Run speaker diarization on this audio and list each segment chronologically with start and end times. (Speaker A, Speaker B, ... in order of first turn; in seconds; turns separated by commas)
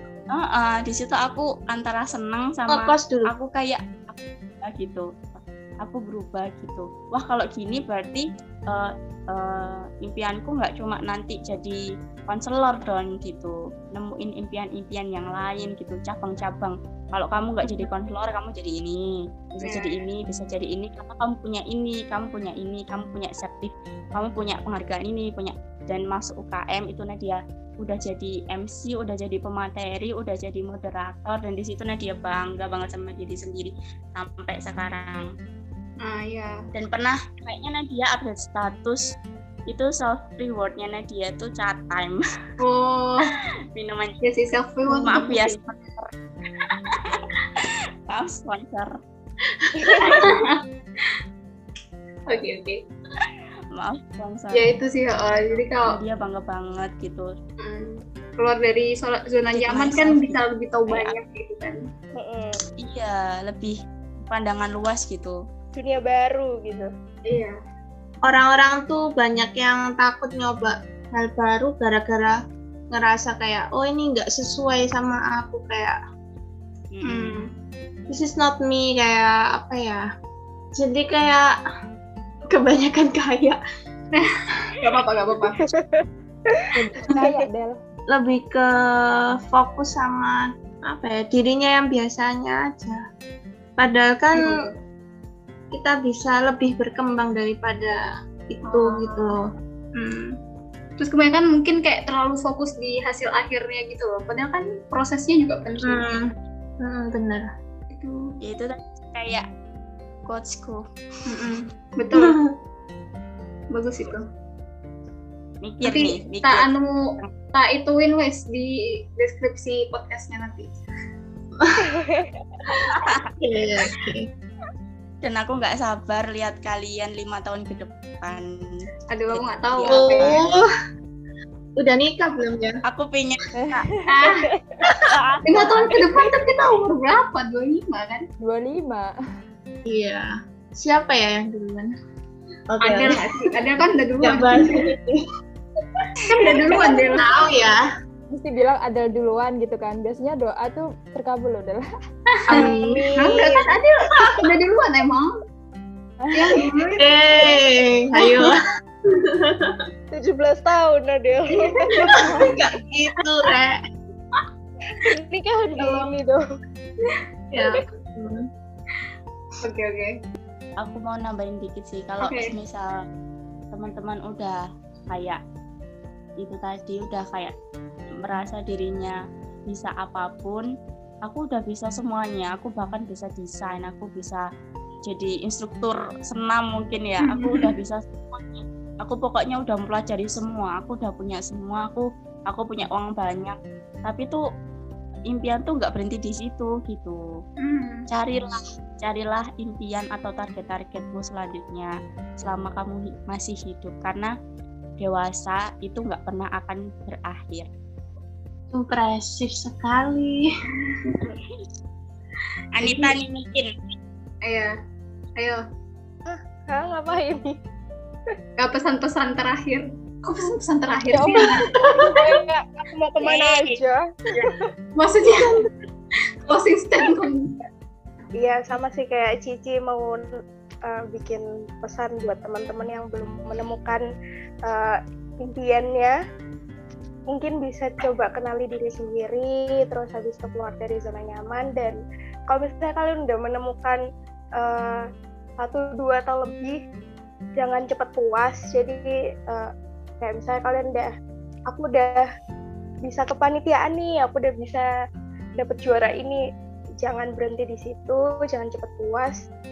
Speaker A: 0.3-19.0, Speaker B: 2.7-3.3, Speaker C: 17.6-17.9, Speaker A: 19.5-35.3, Speaker C: 19.6-20.0, Speaker C: 36.0-36.6, Speaker A: 36.7-39.0, Speaker A: 39.7-42.2, Speaker C: 42.6-43.3, Speaker A: 43.8-44.2, Speaker C: 44.2-45.5, Speaker B: 44.9-45.3, Speaker A: 45.0-46.1, Speaker A: 47.0-49.0, Speaker A: 49.8-50.3, Speaker C: 50.0-51.1, Speaker C: 52.3-52.8, Speaker A: 53.8-54.7, Speaker C: 54.5-56.0, Speaker A: 55.9-57.3, Speaker C: 57.6-61.8, Speaker A: 59.5-61.1, Speaker D: 62.2-62.6, Speaker A: 62.8-65.4, Speaker D: 65.8-66.9, Speaker C: 67.3-67.5, Speaker B: 68.2-72.4, Speaker B: 72.9-76.0, Speaker A: 76.9-77.3, Speaker C: 77.0-77.5, Speaker B: 78.1-80.0, Speaker B: 80.8-81.6, Speaker B: 82.5-83.6, Speaker C: 84.2-85.7, Speaker D: 85.6-86.7, Speaker E: 86.7-87.8, Speaker B: 88.1-93.0, Speaker B: 93.8-94.5, Speaker C: 94.3-94.7, Speaker B: 95.7-99.4, Speaker C: 98.7-99.4, Speaker C: 100.0-100.3, Speaker C: 101.0-106.1, Speaker B: 105.9-106.3, Speaker B: 106.8-107.5, Speaker C: 107.9-108.4, Speaker A: 108.4-109.5, Speaker A: 110.3-110.8, Speaker C: 111.3-112.4, Speaker C: 113.7-114.3, Speaker A: 115.6-117.3, Speaker C: 115.8-120.8, Speaker B: 121.6-121.9, Speaker D: 121.8-122.6, Speaker A: 122.9-123.3, Speaker B: 122.9-124.3, Speaker A: 125.2-130.4, Speaker C: 129.1-130.4, Speaker B: 129.8-130.7, Speaker B: 131.8-132.8, Speaker A: 132.8-133.9, Speaker E: 133.6-134.2, Speaker C: 134.1-134.5, Speaker A: 135.0-136.0, Speaker C: 135.4-138.3, Speaker E: 138.4-139.1, Speaker B: 139.9-140.3, Speaker B: 140.8-141.9, Speaker B: 142.7-143.4, Speaker C: 142.8-144.9, Speaker B: 144.2-145.2, Speaker C: 146.3-147.5, Speaker B: 146.7-147.8, Speaker E: 148.3-151.8, Speaker C: 152.4-155.3, Speaker B: 152.5-153.5, Speaker D: 152.5-153.6, Speaker E: 156.2-156.5, Speaker C: 156.3-157.1, Speaker B: 157.0-158.6, Speaker B: 159.3-159.8, Speaker D: 160.2-162.5, Speaker C: 161.7-162.6, Speaker B: 162.2-163.8, Speaker D: 165.0-166.4, Speaker C: 165.8-166.1, Speaker B: 167.6-168.4, Speaker C: 169.6-170.1, Speaker A: 170.8-173.0, Speaker C: 172.2-172.5, Speaker A: 173.7-175.4, Speaker A: 176.4-177.5, Speaker A: 178.2-179.2, Speaker A: 179.7-180.7, Speaker A: 181.3-184.4, Speaker A: 185.1-194.4, Speaker C: 187.2-187.7, Speaker A: 195.3-197.2, Speaker C: 197.6-198.1, Speaker A: 198.1-204.3, Speaker A: 205.0-207.7, Speaker B: 208.7-210.4, Speaker A: 212.7-213.7, Speaker C: 212.8-213.2, Speaker C: 214.4-214.7, Speaker D: 216.3-217.6, Speaker C: 218.6-222.3, Speaker D: 221.1-224.6, Speaker A: 223.2-223.8, Speaker C: 225.0-225.7, Speaker C: 226.5-227.5, Speaker D: 228.4-230.3, Speaker D: 230.9-234.1, Speaker D: 234.7-236.2, Speaker D: 237.3-244.0, Speaker D: 244.6-245.0, Speaker D: 245.6-246.8, Speaker D: 247.6-249.7, Speaker D: 250.2-251.1, Speaker D: 251.7-252.3, Speaker D: 253.1-254.9, Speaker D: 255.6-256.4, Speaker D: 257.0-259.4